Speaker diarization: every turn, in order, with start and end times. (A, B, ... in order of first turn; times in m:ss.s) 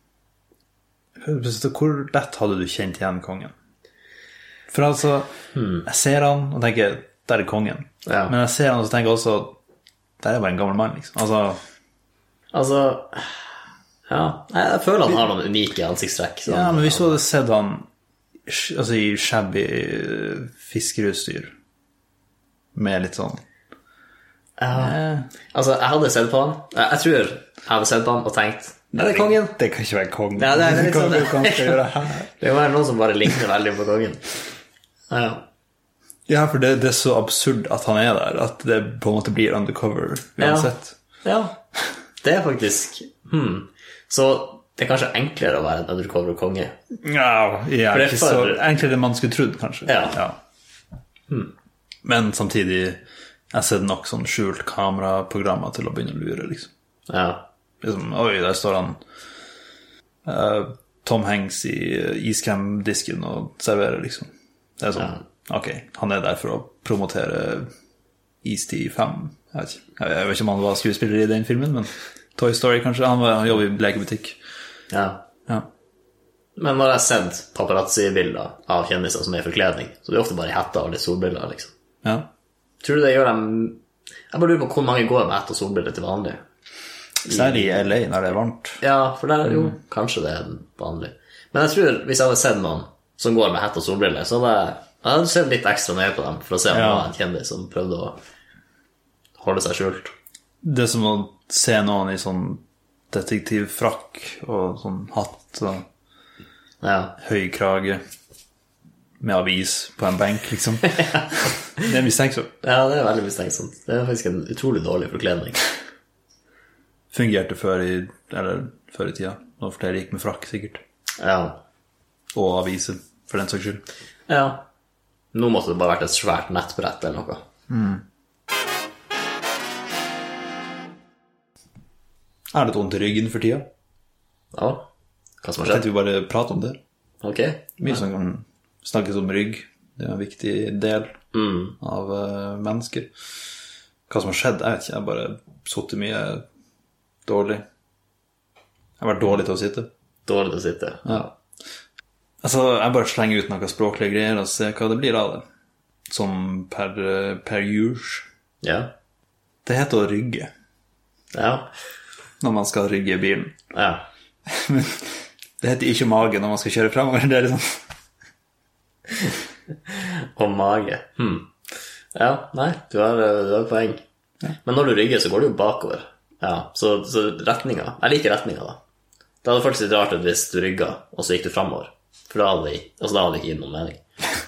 0:01.2-0:03.5 A
0:04.7-0:05.3 A
0:05.6-0:05.9 B
0:05.8-0:09.6 A
0:08.1-0:08.3 B
0:10.2-0:11.6 A
0:12.5-0:13.5 B
0:14.1-0:17.2 B
0:16.5-0:17.9 A
0:18.5-0:21.5 A
0:22.8-0:23.4 A
0:24.6-0:25.0 B
0:24.7-0:25.3 A
0:25.5-0:29.6 B
0:28.9-0:32.4 A
0:30.4-0:34.2 B
0:35.1-0:35.4 B
0:36.3-0:41.0 A
0:40.4-0:41.6 B
0:42.2-0:46.7 B
0:47.0-0:50.4 A
0:47.9-0:48.6 B
0:49.9-0:50.2 B
0:52.0-0:53.0 A
0:53.5-0:56.7 A
0:57.1-0:57.5 B
0:57.8-0:59.0 A
1:00.2-1:07.7 A
1:08.4-1:14.4 A
1:14.9-1:15.2 B
1:16.6-1:21.7 B
1:22.8-1:26.4 B
1:27.2-1:28.8 A
1:27.3-1:27.9 B
1:28.8-1:38.2 B
1:36.7-1:37.1 A
1:39.4-1:40.1 B
1:40.6-1:45.9 A
1:46.8-1:47.2 B
1:47.2-1:48.0 A
1:49.2-1:52.5 A
1:52.6-1:55.6 B
1:57.1-2:00.8 A
2:01.2-2:01.6 B
2:02.4-2:03.8 A
2:04.3-2:04.7 B
2:05.3-2:07.4 B
2:07.7-2:08.0 A
2:12.5-2:13.7 A
2:14.5-2:14.9 B
2:15.4-2:15.9 B
2:15.6-2:16.8 A
2:17.2-2:18.0 B
2:17.8-2:21.2 A
2:21.3-2:21.8 B
2:21.8-2:23.1 A
2:24.1-2:26.4 A
2:27.3-2:27.6 A
2:29.0-2:29.9 A
2:30.3-2:31.3 B
2:32.4-2:35.4 A
2:36.1-2:38.3 A
2:38.6-2:38.9 B
2:39.6-2:40.5 A
2:41.3-2:41.7 B
2:42.4-2:43.6 A
2:43.7-2:44.1 B
2:44.5-2:47.8 A
2:49.9-2:51.5 B
2:52.1-2:54.0 B
2:54.6-2:58.8 B
2:59.4-3:04.0 B